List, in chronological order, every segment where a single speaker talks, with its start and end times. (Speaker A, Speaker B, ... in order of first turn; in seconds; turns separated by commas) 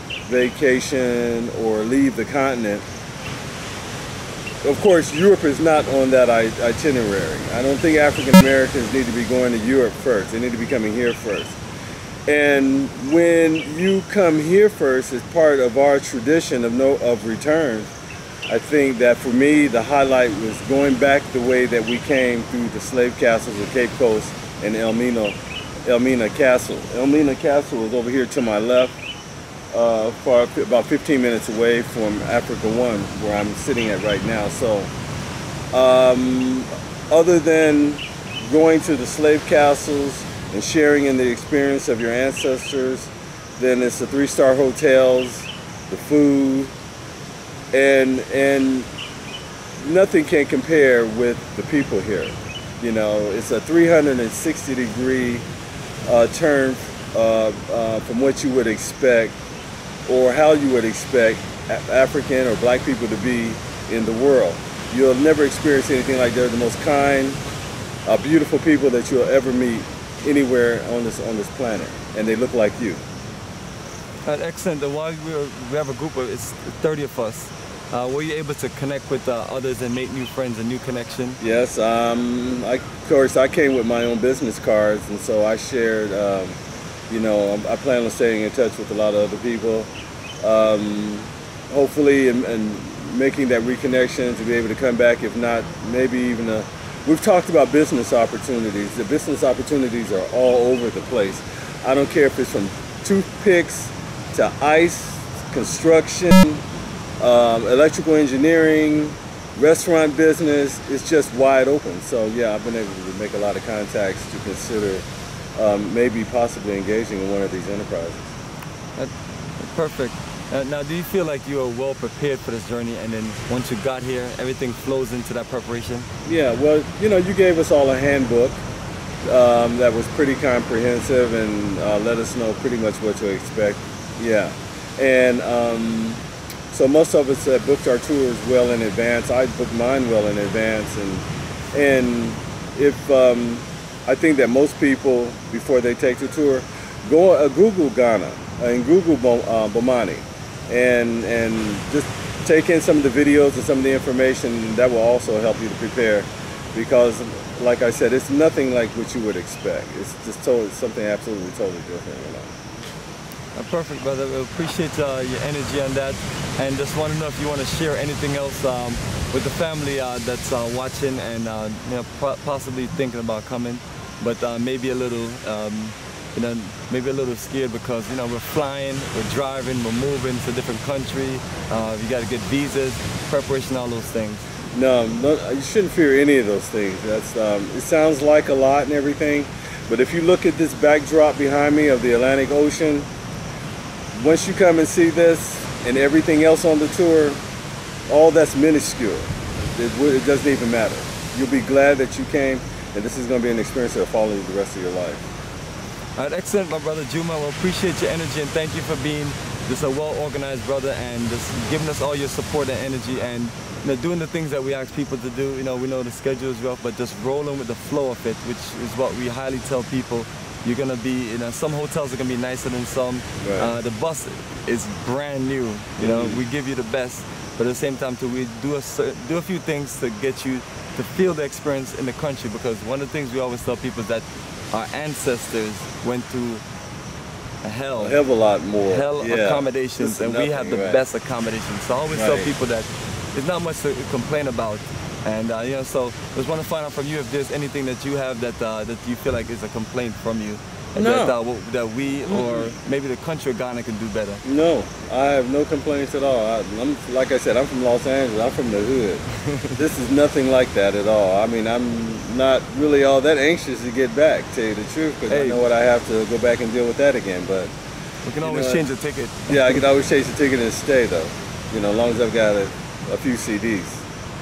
Speaker A: 0.3-2.8, Speaker A: 4.6-11.6, Speaker A: 12.3-17.9, Speaker A: 18.5-28.9, Speaker A: 29.7-34.9, Speaker A: 35.7-46.7, Speaker A: 47.7-48.9, Speaker A: 49.8-55.5, Speaker A: 56.1-59.4, Speaker A: 60.1-67.4, Speaker A: 68.1-73.0, Speaker B: 74.2-81.4, Speaker A: 81.4-86.6, Speaker A: 87.1-89.9, Speaker A: 90.4-106.6, Speaker A: 107.2-115.0, Speaker A: 115.6-118.3, Speaker B: 119.0-126.1, Speaker A: 126.2-128.6, Speaker A: 129.3-162.5, Speaker B: 163.5-184.5, Speaker A: 184.7-193.1, Speaker A: 194.1-197.4, Speaker A: 198.1-205.3, Speaker B: 206.2-236.6, Speaker A: 223.4-223.7, Speaker A: 226.0-226.4, Speaker B: 237.6-238.2, Speaker A: 238.0-241.0, Speaker B: 238.9-254.4, Speaker A: 242.1-242.5, Speaker A: 250.9-251.4, Speaker A: 252.3-252.7, Speaker A: 254.4-267.7, Speaker B: 259.5-259.8, Speaker B: 265.3-265.6, Speaker B: 268.2-269.9, Speaker A: 268.4-268.9, Speaker A: 269.5-274.0